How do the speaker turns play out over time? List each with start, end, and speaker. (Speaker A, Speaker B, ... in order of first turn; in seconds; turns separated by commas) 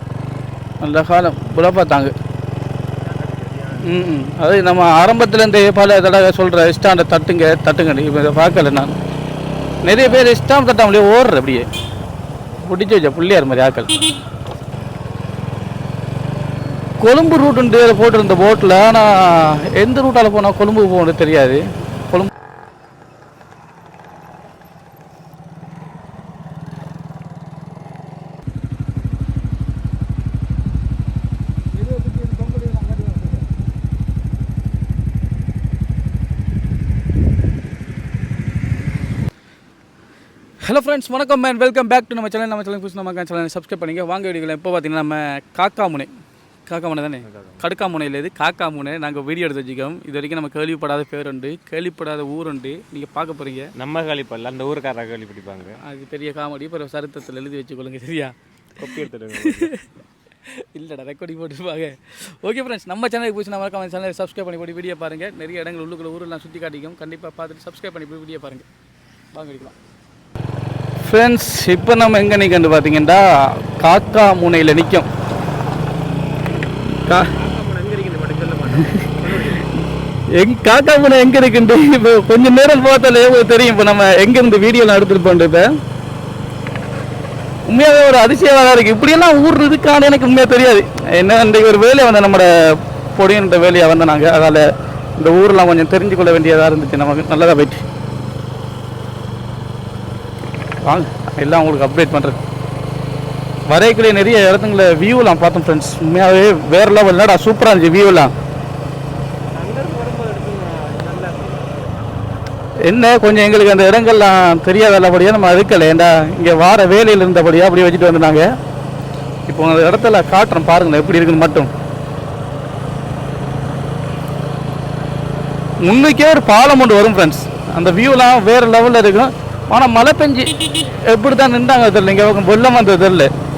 Speaker A: 0.8-2.1, Speaker B: 3.0-4.0, Speaker A: 3.8-8.9, Speaker A: 9.8-11.7, Speaker A: 12.6-13.9, Speaker A: 17.0-22.3, Speaker A: 31.9-33.2, Speaker A: 40.6-46.1, Speaker A: 46.7-53.7, Speaker B: 47.3-47.6, Speaker B: 53.8-55.8, Speaker A: 55.8-58.3, Speaker B: 58.8-59.7, Speaker A: 59.4-59.9, Speaker A: 60.5-68.7, Speaker A: 69.3-69.7, Speaker A: 71.0-75.1, Speaker B: 77.3-79.7, Speaker A: 80.3-85.7, Speaker A: 87.7-94.6, Speaker A: 95.2-97.8, Speaker A: 100.8-102.4, Speaker A: 103.7-108.3, Speaker B: 109.5-112.0, Speaker A: 112.8-118.5, Speaker A: 119.5-121.7, Speaker A: 125.8-133.3